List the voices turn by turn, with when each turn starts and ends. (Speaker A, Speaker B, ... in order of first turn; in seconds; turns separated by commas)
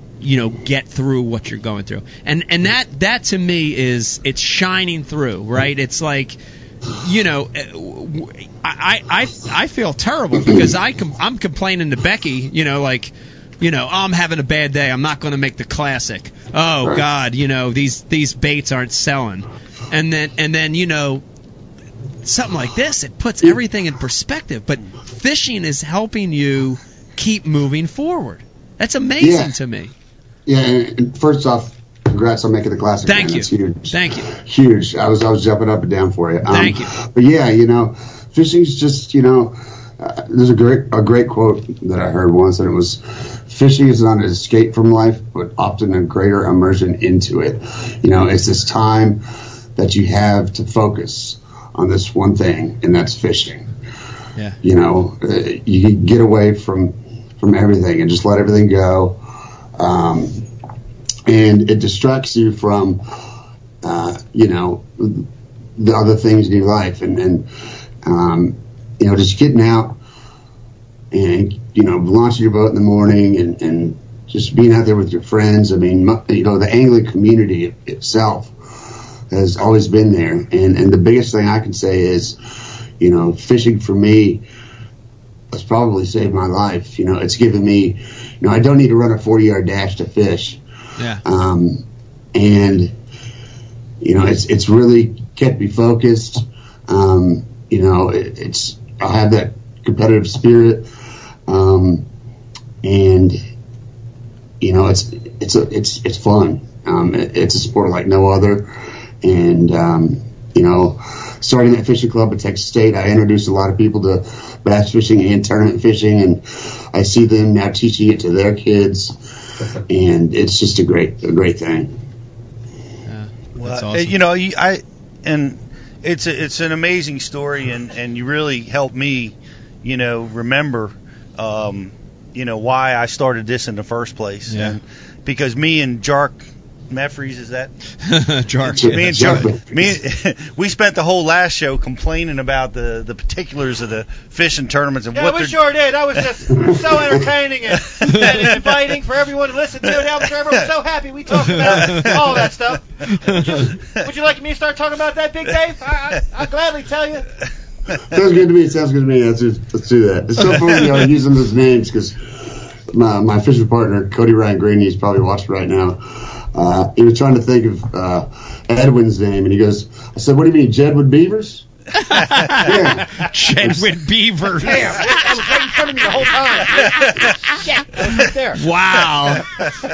Speaker A: 0.2-6.4, Speaker A: 6.9-21.2, Speaker A: 22.2-29.9, Speaker B: 29.2-29.5, Speaker B: 30.4-49.2, Speaker A: 33.1-34.3, Speaker A: 36.5-36.9, Speaker B: 49.8-53.7, Speaker B: 54.6-59.2, Speaker B: 59.8-60.5, Speaker B: 61.2-63.0, Speaker B: 63.8-67.5, Speaker B: 68.0-70.0, Speaker B: 71.1-78.5, Speaker B: 79.3-82.4, Speaker B: 83.0-84.4, Speaker B: 85.5-90.6, Speaker A: 91.0-91.2, Speaker B: 91.2-93.0, Speaker B: 94.0-100.9, Speaker B: 101.5-102.0, Speaker B: 102.8-103.4, Speaker B: 104.6-119.2, Speaker B: 119.9-122.0, Speaker A: 123.1-124.2, Speaker C: 123.6-137.7, Speaker A: 134.5-134.8, Speaker A: 138.0-139.5, Speaker B: 138.7-140.0, Speaker C: 138.8-145.7, Speaker D: 145.1-157.3, Speaker C: 148.0-148.6, Speaker C: 151.6-152.4, Speaker A: 151.8-152.0, Speaker B: 158.1-171.7, Speaker A: 171.9-175.2, Speaker B: 172.6-173.9, Speaker D: 174.6-178.6, Speaker A: 178.5-179.6